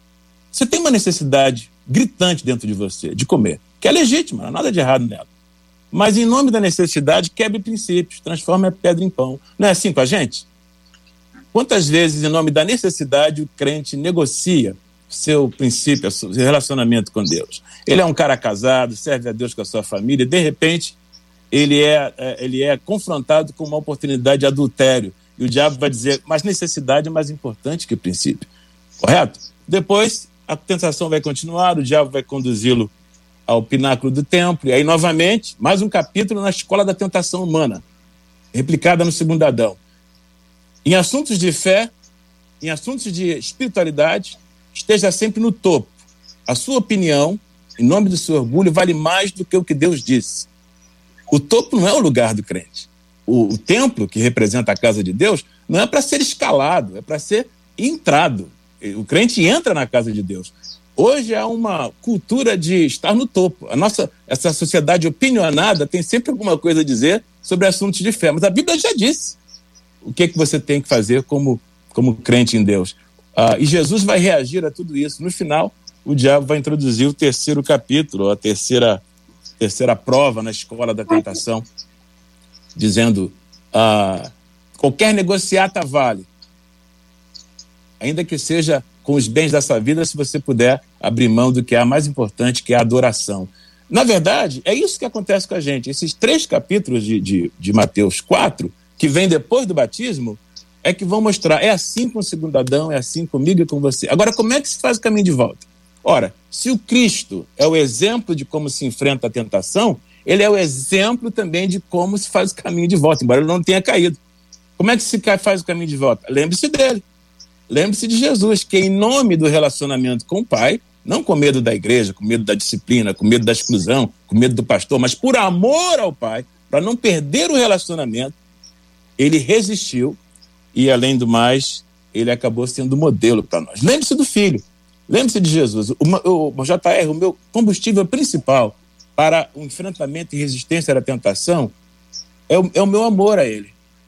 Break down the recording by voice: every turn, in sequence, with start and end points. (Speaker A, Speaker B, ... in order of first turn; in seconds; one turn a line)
Speaker A: 0.5-5.3
Speaker A: 5.9-10.5
Speaker A: 11.5-21.0
Speaker A: 21.5-28.5
Speaker A: 29.0-32.9
Speaker A: 33.5-37.8
Speaker A: 38.5-39.8
Speaker A: 40.8-41.9
Speaker A: 42.6-45.9
Speaker A: 46.5-50.5
Speaker A: 51.3-69.4
Speaker A: 70.0-79.0
Speaker A: 79.6-81.6
Speaker A: 82.8-86.3
Speaker A: 88.0-114.2
Speaker A: 114.8-117.0
Speaker A: 117.7-128.3
Speaker A: 129.2-130.2
Speaker A: 130.7-141.7
Speaker A: 142.5-143.7